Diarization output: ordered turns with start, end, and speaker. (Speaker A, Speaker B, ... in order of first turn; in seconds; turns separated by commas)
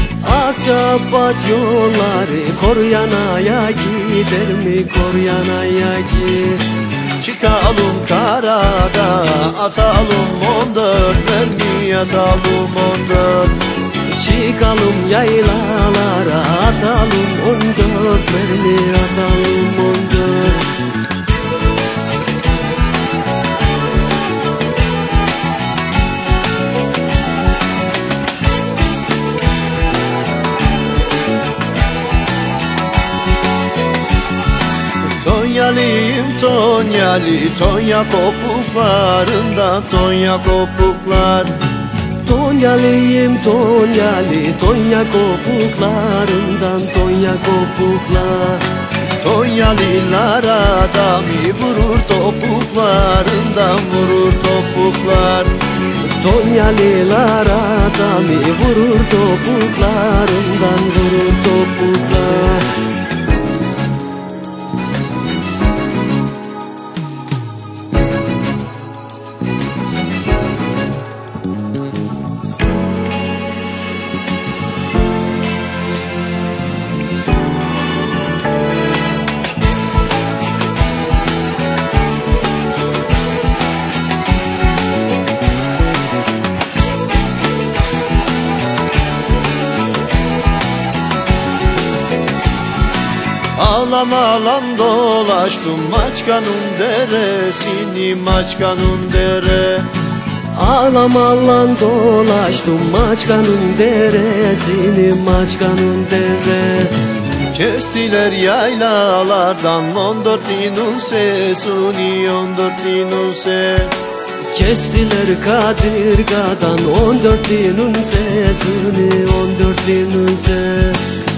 Speaker A: 0.2-6.7, Speaker B: 7.2-13.6, Speaker A: 14.1-20.8, Speaker B: 35.2-41.5, Speaker A: 42.2-48.7, Speaker B: 49.2-55.5, Speaker A: 56.0-62.8, Speaker B: 93.6-99.9, Speaker A: 100.5-107.0, Speaker B: 107.5-114.0, Speaker A: 114.5-121.2